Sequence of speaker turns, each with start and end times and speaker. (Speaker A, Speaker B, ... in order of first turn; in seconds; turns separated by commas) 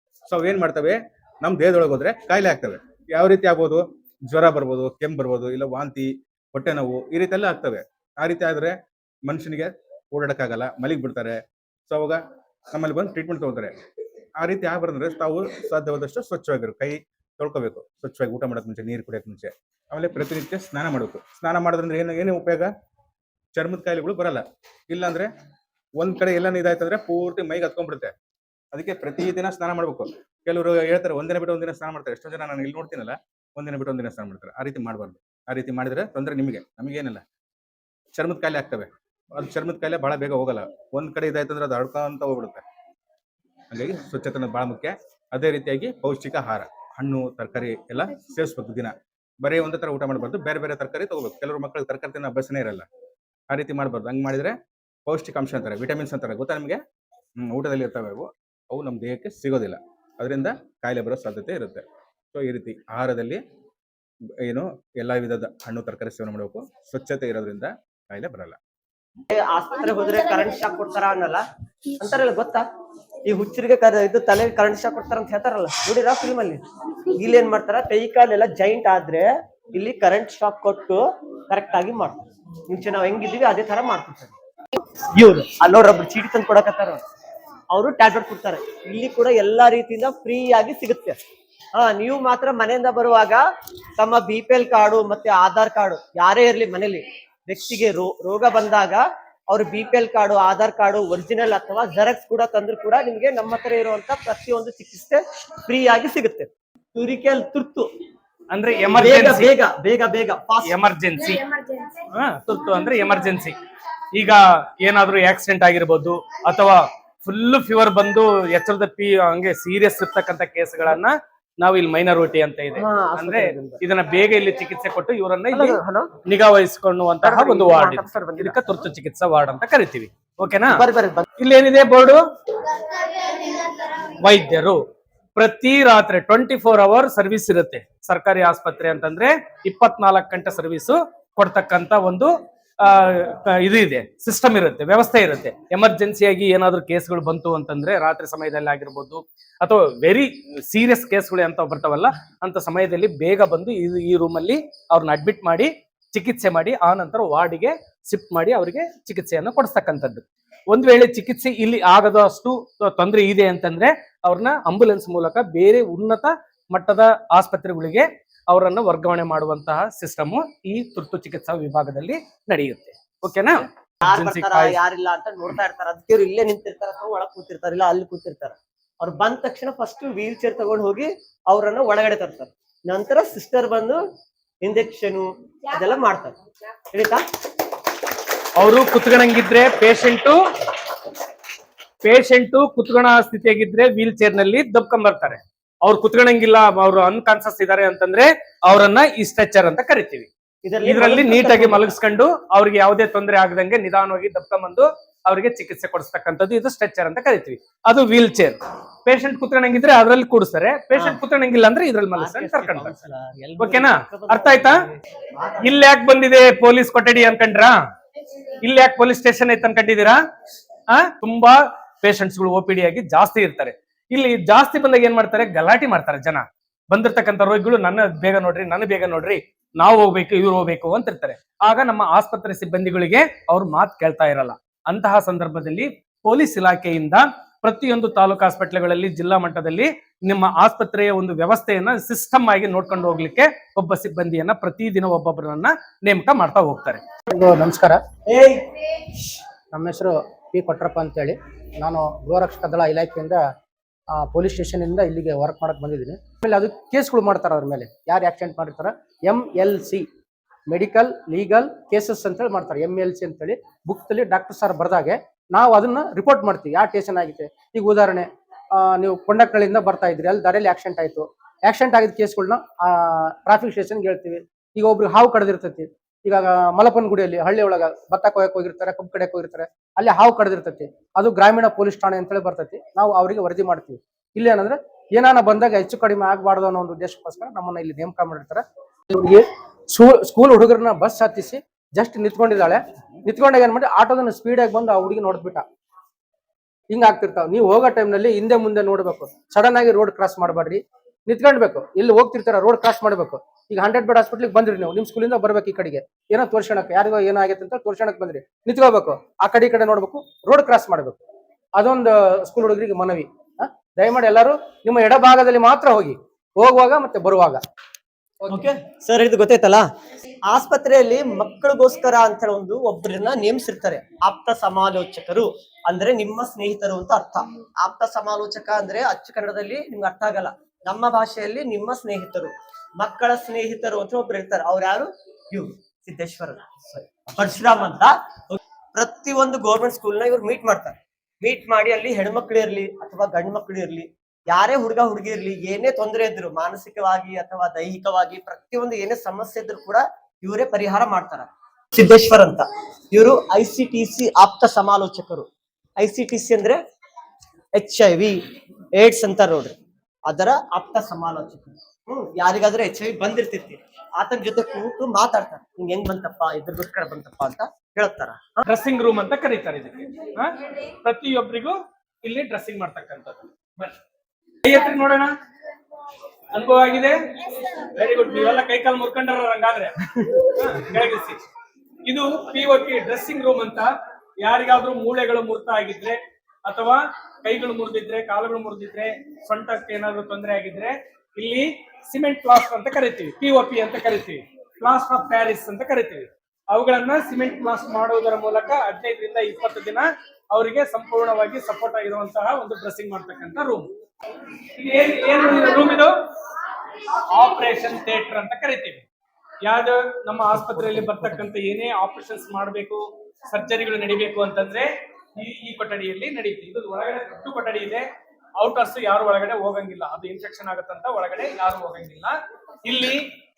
Speaker A: 0.3-8.7, Speaker A: 9.3-11.4, Speaker A: 11.9-12.2, Speaker A: 12.7-13.7, Speaker A: 14.4-22.7, Speaker A: 23.5-25.3, Speaker A: 26.0-28.1, Speaker A: 28.7-37.2, Speaker A: 38.1-42.6, Speaker A: 43.7-48.9, Speaker A: 49.4-52.9, Speaker A: 53.5-54.5, Speaker A: 55.1-56.8, Speaker A: 57.4-61.8, Speaker A: 62.3-63.4, Speaker A: 64.4-68.6, Speaker B: 69.3-71.4, Speaker B: 72.0-72.6, Speaker B: 73.2-76.6, Speaker B: 77.1-84.3, Speaker B: 85.1-87.0, Speaker B: 87.7-91.2, Speaker B: 91.8-93.4, Speaker B: 94.0-107.9, Speaker C: 108.5-109.5, Speaker B: 108.9-110.7, Speaker C: 110.6-111.4, Speaker C: 112.1-113.5, Speaker C: 114.1-130.8, Speaker B: 122.8-123.8, Speaker B: 125.5-126.1, Speaker B: 127.2-128.6, Speaker B: 130.7-131.2, Speaker C: 131.4-132.2, Speaker C: 134.1-134.8, Speaker C: 135.3-142.3, Speaker C: 142.8-174.8, Speaker B: 174.0-184.0, Speaker B: 184.6-186.3, Speaker B: 186.9-187.2, Speaker C: 188.6-190.4, Speaker C: 192.0-200.3, Speaker B: 200.6-201.9, Speaker C: 200.8-213.0, Speaker B: 210.9-211.2, Speaker B: 212.1-215.8, Speaker C: 213.6-214.7, Speaker C: 215.6-217.7, Speaker C: 218.6-220.2, Speaker C: 220.9-247.0, Speaker D: 247.3-248.0, Speaker B: 248.3-248.6, Speaker D: 249.7-253.4, Speaker D: 254.1-260.0, Speaker D: 260.7-268.3, Speaker D: 268.8-295.6, Speaker D: 296.9-311.2, Speaker D: 311.8-317.6, Speaker B: 318.5-319.8, Speaker B: 320.4-355.5, Speaker B: 356.0-356.8, Speaker B: 357.7-358.4, Speaker B: 358.9-359.7, Speaker B: 360.3-368.6, Speaker C: 368.6-373.9, Speaker C: 374.6-375.3, Speaker C: 376.5-380.0, Speaker C: 380.5-381.4, Speaker C: 382.1-383.9, Speaker C: 384.4-403.9, Speaker C: 404.8-406.1, Speaker C: 407.3-409.0, Speaker C: 409.7-418.1, Speaker C: 418.6-422.3, Speaker C: 422.9-423.2